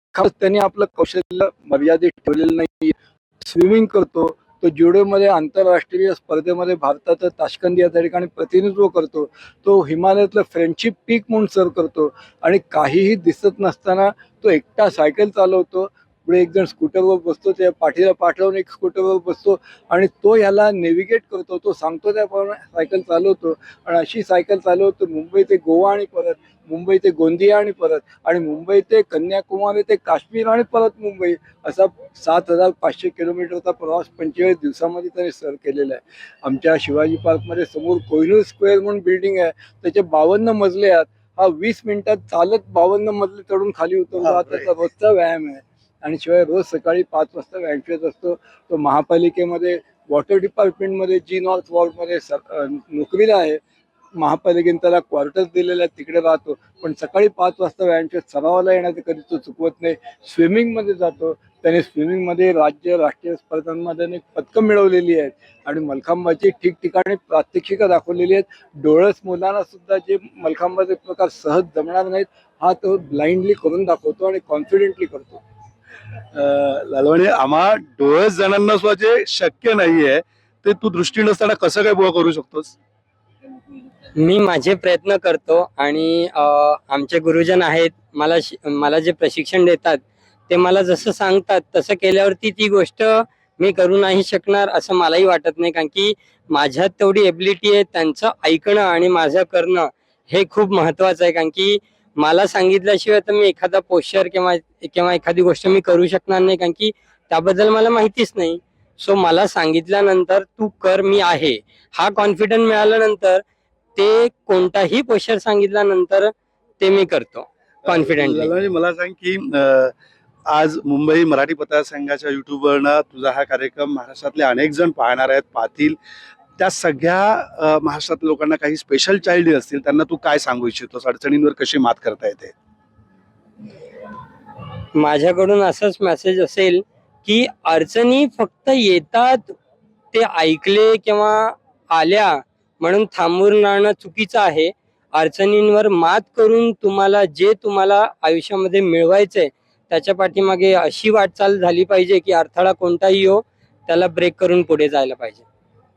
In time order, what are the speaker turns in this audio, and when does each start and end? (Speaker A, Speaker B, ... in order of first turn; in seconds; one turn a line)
Speaker A: 0.1-53.6
Speaker B: 44.3-44.7
Speaker A: 54.2-75.4
Speaker B: 76.3-82.8
Speaker C: 84.2-113.4
Speaker C: 114.0-118.5
Speaker B: 117.8-119.9
Speaker B: 120.5-126.0
Speaker B: 126.6-132.5
Speaker C: 135.0-139.5
Speaker C: 140.1-155.4